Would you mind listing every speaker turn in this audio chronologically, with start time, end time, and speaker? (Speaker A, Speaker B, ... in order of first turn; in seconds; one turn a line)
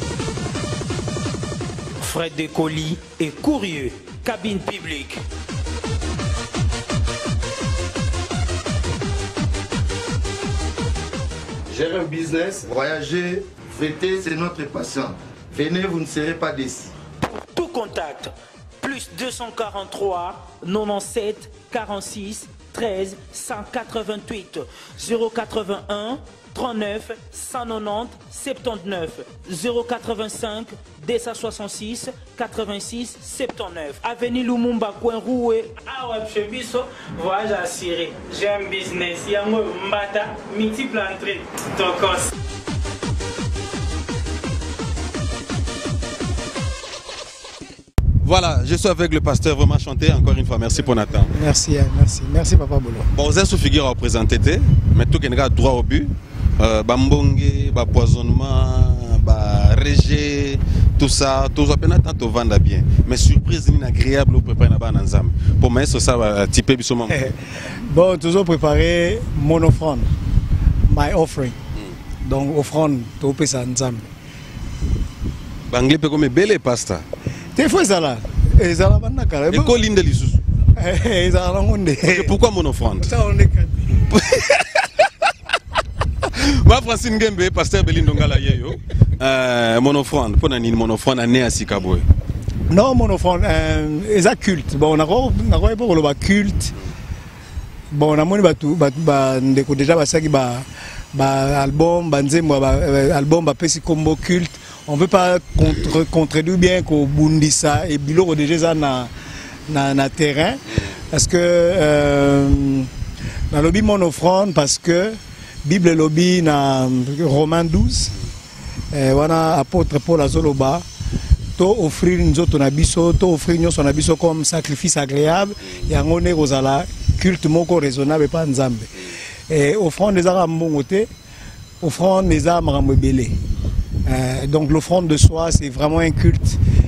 Speaker A: 2.0-5.2
Speaker B: 11.7-16.9
Speaker A: 17.2-42.3
Speaker C: 48.2-51.3
Speaker D: 51.3-53.1
Speaker C: 53.1-67.2
Speaker D: 67.1-70.1
Speaker D: 70.9-71.5
Speaker D: 72.2-74.1
Speaker C: 75.7-77.0
Speaker D: 77.5-79.8
Speaker C: 79.5-80.4
Speaker D: 80.8-82.3
Speaker C: 82.0-83.1
Speaker D: 83.0-84.2
Speaker C: 86.2-92.0
Speaker D: 92.7-96.7
Speaker D: 97.9-109.1
Speaker D: 109.7-112.9
Speaker D: 113.5-118.2
Speaker D: 118.9-120.8
Speaker D: 121.6-131.1
Speaker D: 131.8-133.4
Speaker D: 134.1-136.6